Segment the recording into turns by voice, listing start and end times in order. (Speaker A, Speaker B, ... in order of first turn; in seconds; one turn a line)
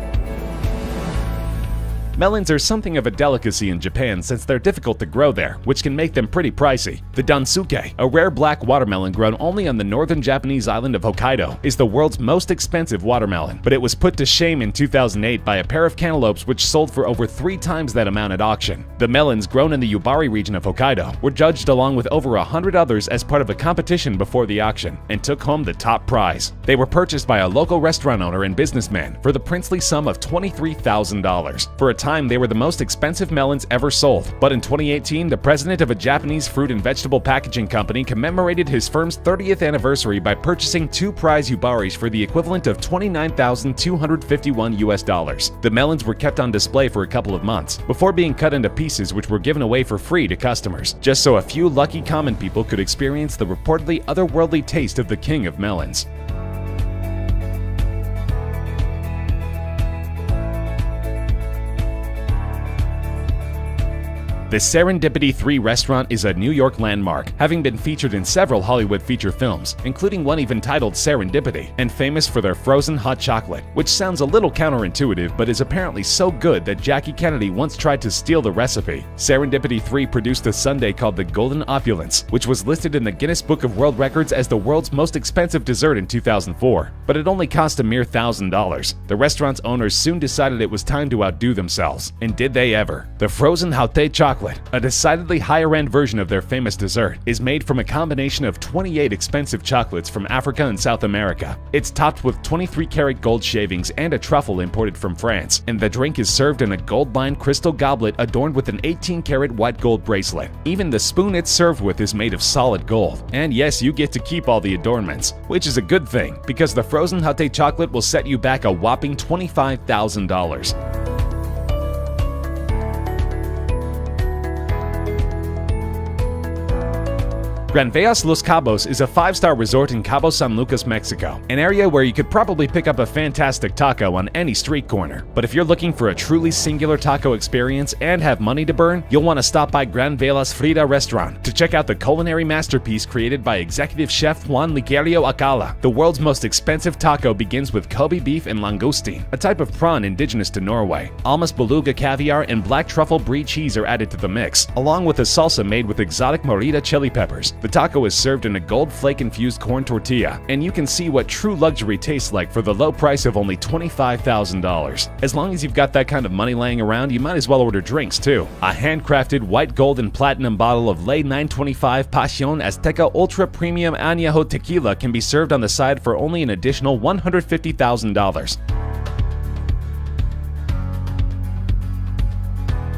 Speaker A: 2.2-56.1
Speaker A: 64.5-120.8
Speaker A: 127.7-178.6